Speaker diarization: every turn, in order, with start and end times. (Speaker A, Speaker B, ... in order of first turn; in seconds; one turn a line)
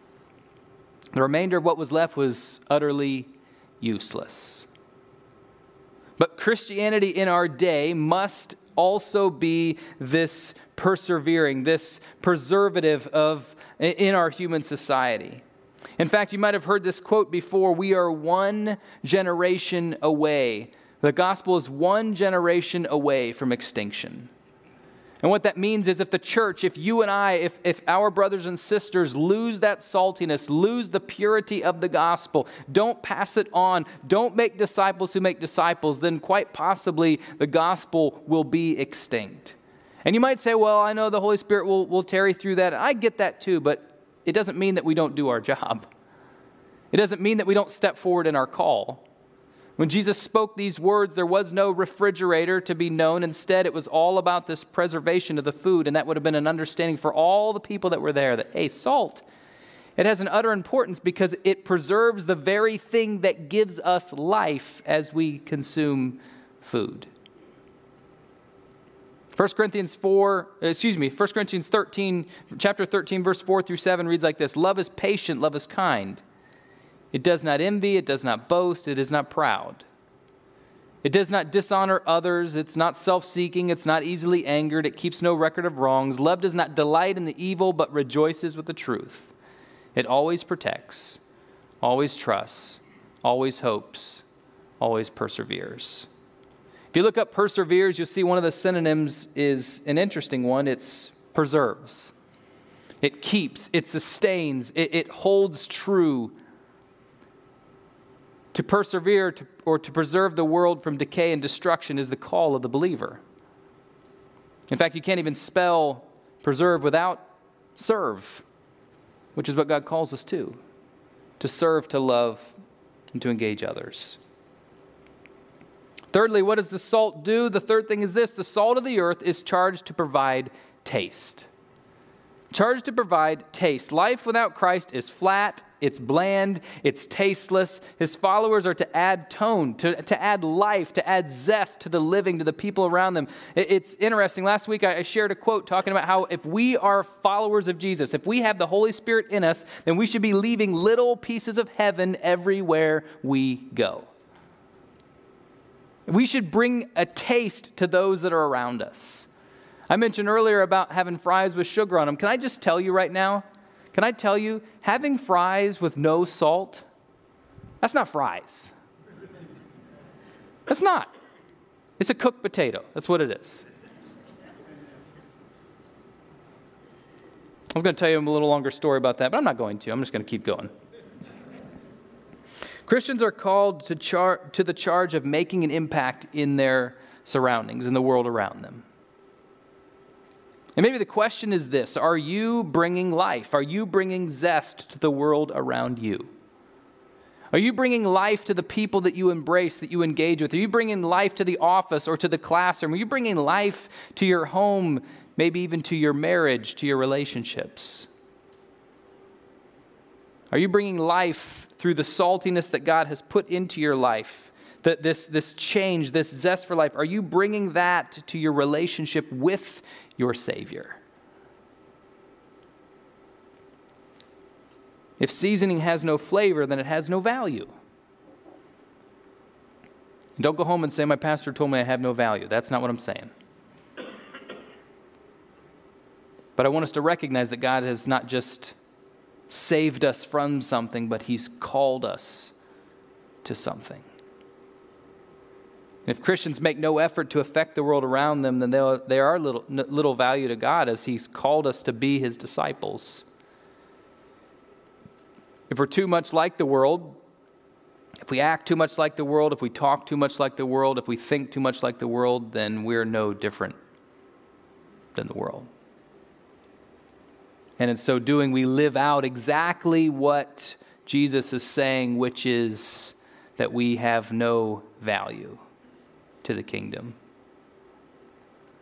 Speaker A: 1.1-4.7
Speaker A: 6.2-15.4
Speaker A: 16.0-24.3
Speaker A: 25.2-45.9
Speaker A: 46.9-49.0
Speaker A: 49.8-59.2
Speaker A: 60.0-67.1
Speaker A: 69.4-76.2
Speaker A: 77.1-79.9
Speaker A: 81.0-89.3
Speaker A: 90.0-91.2
Speaker A: 91.8-94.2
Speaker A: 94.8-96.1
Speaker A: 96.9-102.1
Speaker A: 103.0-106.3
Speaker A: 108.5-113.2
Speaker A: 114.7-117.2
Speaker A: 117.8-118.4
Speaker A: 119.3-120.6
Speaker A: 121.4-122.5
Speaker A: 123.1-124.2
Speaker A: 126.1-131.5
Speaker A: 132.5-154.1
Speaker A: 156.1-159.3
Speaker A: 159.9-166.8
Speaker A: 167.8-168.7
Speaker A: 170.7-171.1
Speaker A: 172.0-173.7
Speaker A: 177.7-180.7
Speaker A: 182.8-188.8
Speaker A: 190.8-196.3
Speaker A: 197.5-208.1
Speaker A: 210.5-221.0
Speaker A: 225.2-227.7
Speaker A: 230.4-233.3
Speaker A: 236.6-238.8
Speaker A: 239.5-242.5
Speaker A: 243.4-244.1
Speaker A: 246.1-253.3
Speaker A: 255.7-257.2
Speaker A: 258.2-263.8
Speaker A: 265.1-265.7
Speaker A: 267.8-275.6
Speaker A: 276.4-277.2